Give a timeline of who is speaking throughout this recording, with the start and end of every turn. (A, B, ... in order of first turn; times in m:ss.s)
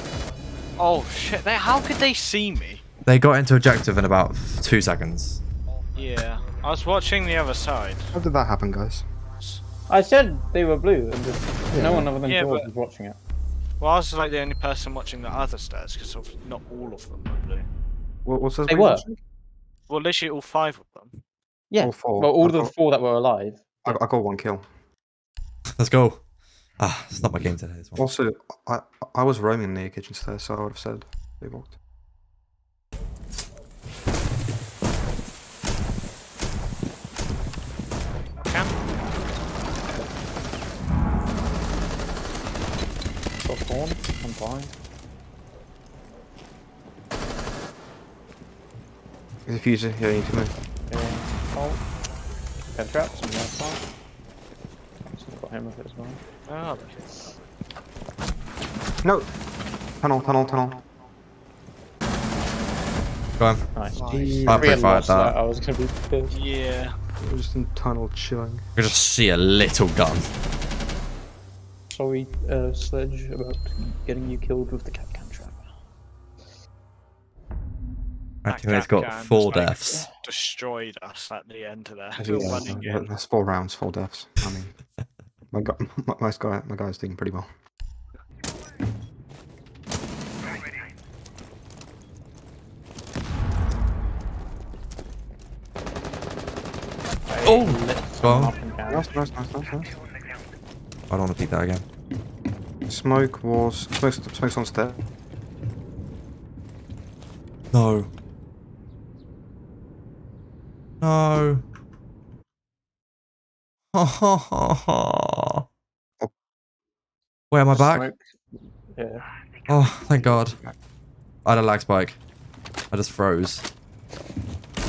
0:00.8-0:02.8 A
0:03.1-0:05.4 B
0:05.9-0:08.2 A
0:08.1-0:09.1 C
0:09.9-0:13.2 D
0:11.7-0:12.1 C
0:12.2-0:12.7 A
0:13.8-0:17.7 A
0:18.2-0:19.2 C
0:18.7-0:19.1 D
0:19.9-0:21.2 A
0:21.7-0:24.0 D
0:21.8-0:22.7 C
0:23.8-0:24.7 C
0:25.8-0:26.2 B
0:26.8-0:28.0 B
0:28.0-0:31.8 C
0:38.4-0:38.7 A
0:43.4-0:44.7 D
0:49.4-0:50.6 C
0:50.9-0:51.9 D
0:52.7-0:53.8 D
0:55.1-0:56.2 D
0:56.5-0:57.0 A
0:59.0-0:59.3 C
1:00.0-1:00.8 C
1:03.4-1:03.6 B
1:03.7-1:06.4 D
1:04.0-1:04.8 C
1:04.0-1:04.4 A
1:04.4-1:05.4 B
1:06.3-1:06.9 A
1:07.2-1:08.7 C
1:08.7-1:10.3 B
1:11.9-1:15.6 D
1:18.4-1:20.1 B
1:18.5-1:23.1 A
1:22.2-1:24.8 C
1:22.3-1:22.8 D
1:25.5-1:27.5 C
1:37.3-1:39.2 D
1:37.4-1:38.5 B
1:38.9-1:40.0 C
1:41.1-1:41.8 B
1:42.9-1:45.0 C
1:47.7-1:48.1 B
1:51.0-1:51.6 B
1:53.9-1:55.6 B
1:57.5-1:58.1 B
1:57.7-1:59.2 D
1:59.7-2:00.6 B
2:00.3-2:00.8 C
2:01.4-2:02.2 B
2:02.9-2:03.6 B